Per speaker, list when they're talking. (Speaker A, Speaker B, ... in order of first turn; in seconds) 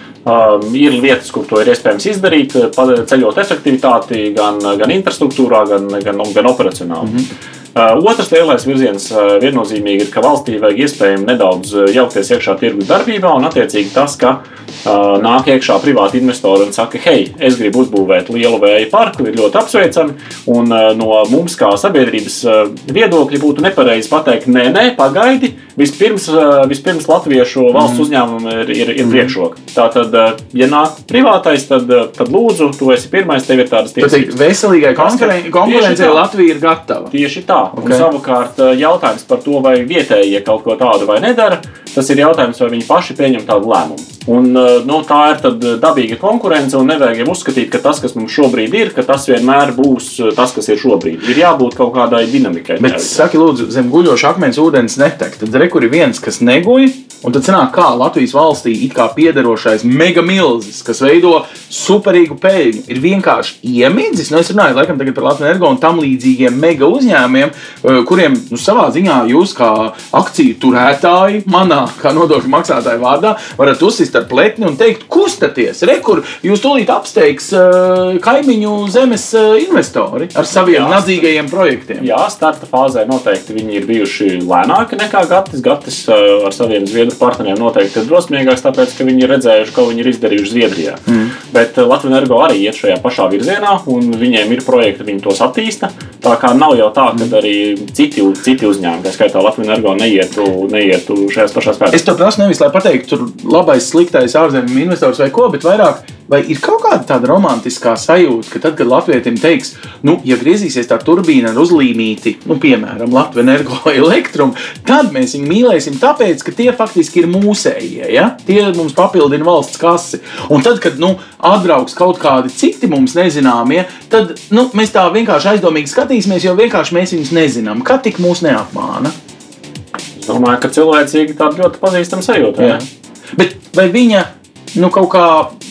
Speaker A: 0.2-7.2, 7.7-34.4, 35.0-36.3, 37.1-53.2, 80.5-81.3, 82.0-102.0, 130.2-132.8
Speaker B: 27.7-28.1, 29.0-29.3, 34.0-37.1, 37.7-38.1, 52.8-82.1, 91.1-91.3, 101.9-129.1, 132.6-132.8, 133.3-135.6